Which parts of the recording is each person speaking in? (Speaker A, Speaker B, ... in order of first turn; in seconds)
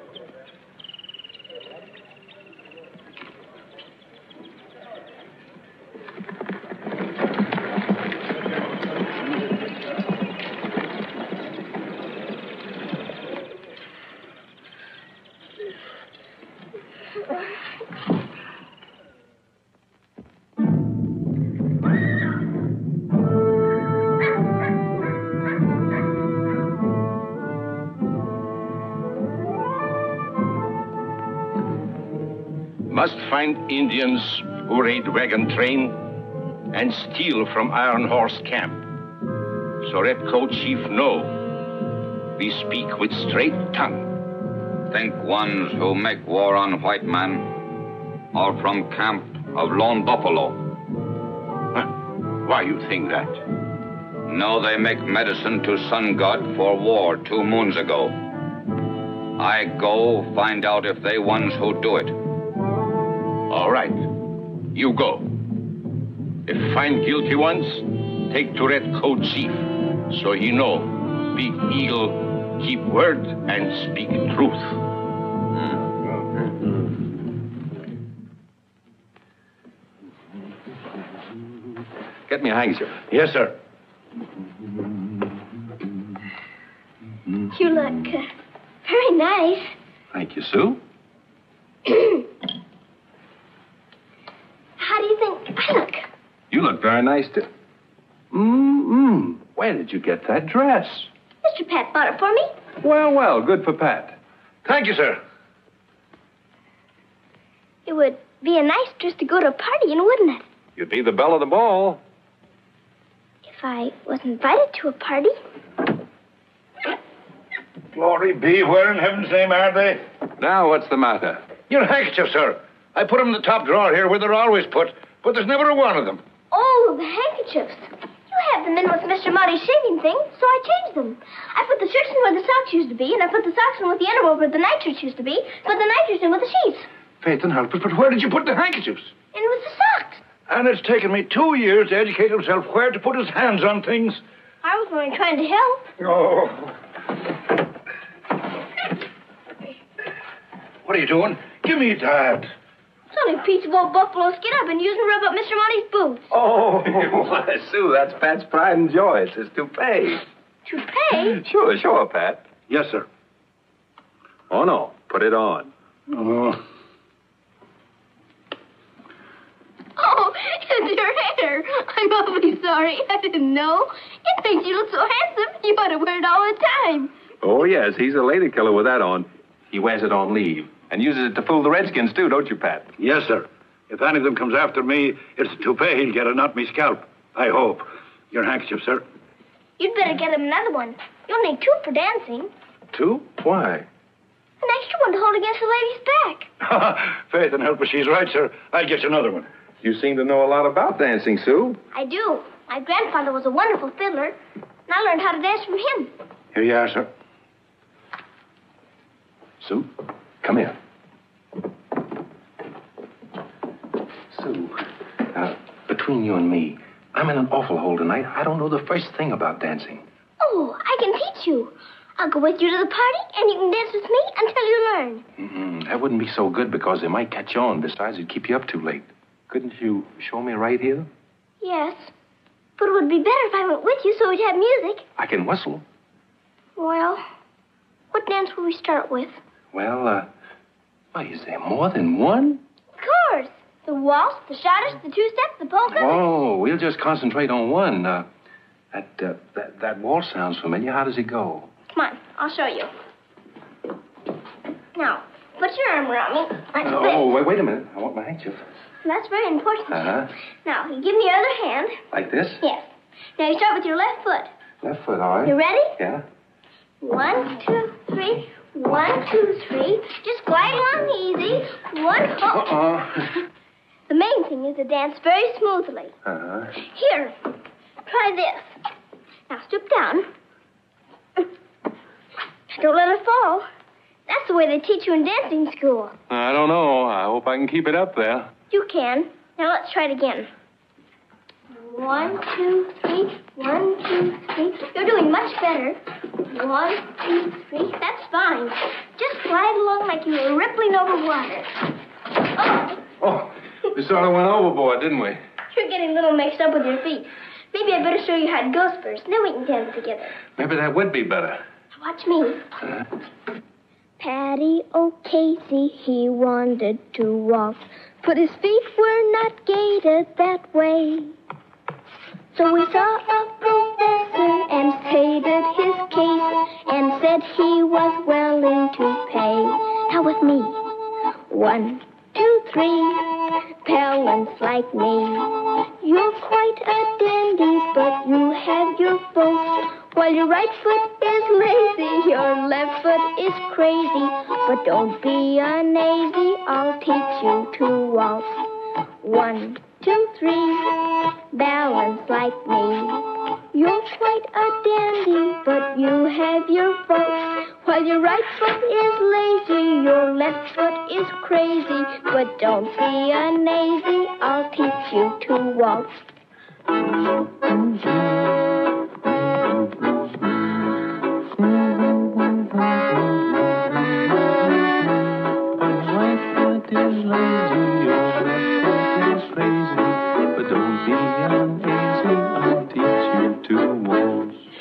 Speaker A: 32.9-35.9, 36.8-38.6, 39.9-41.0, 43.5-43.8, 82.3-83.0, 90.1-90.8, 96.5-97.5, 98.3-101.1, 102.8-104.2, 110.8-112.0, 120.4-121.5, 138.0-138.8, 156.3-160.2, 161.4-162.5, 164.5-165.7, 177.4-182.9, 192.9-193.9, 199.8-201.8, 209.6-209.9, 210.4-210.8, 214.3-214.8, 215.3-220.0, 225.4-231.1, 235.2-235.8, 239.7-240.3, 241.1-242.6, 245.9-248.3, 248.9-251.7, 256.7-258.6, 259.9-260.3, 262.1-262.6, 264.8-266.2, 272.6-273.3, 276.2-276.7, 286.3-288.5, 303.2-305.4, 310.6-311.6, 367.7-368.5, 369.7-370.3, 371.6-374.0, 375.7-384.6
Speaker B: 44.9-47.6, 48.3-50.6, 54.3-58.1, 59.4-62.2
Speaker C: 83.1-83.5, 104.6-105.2, 117.9-120.0, 121.7-126.2, 137.2-139.0, 140.5-144.2, 146.0-146.7, 150.8-152.5, 162.7-163.1, 166.1-166.6, 183.0-189.0, 196.6-199.5, 206.5-207.1
Speaker D: 87.5-88.3, 88.8-89.7, 94.8-96.1, 101.4-102.5, 107.8-110.4, 113.5-115.3, 126.5-136.9, 139.3-140.2, 144.6-145.8, 153.1-156.2, 160.7-161.4, 170.0-177.1, 189.8-192.5, 194.6-196.5, 201.9-204.4, 204.9-206.1, 220.4-225.2, 231.6-232.1, 232.8-235.0, 236.8-237.2, 238.1-239.4, 243.0-246.2, 251.9-252.9, 254.9-257.3, 259.0-260.1, 260.6-262.0, 262.6-264.5, 265.4-266.0, 267.0-272.8, 274.1-276.1, 276.8-277.3, 278.1-278.7, 279.5-280.3, 282.7-283.7, 284.3-286.1, 288.7-290.5, 291.7-301.7, 302.6-303.0, 305.7-310.4, 311.9-312.7, 314.2-321.3, 322.5-330.8, 331.5-348.6, 349.2-366.1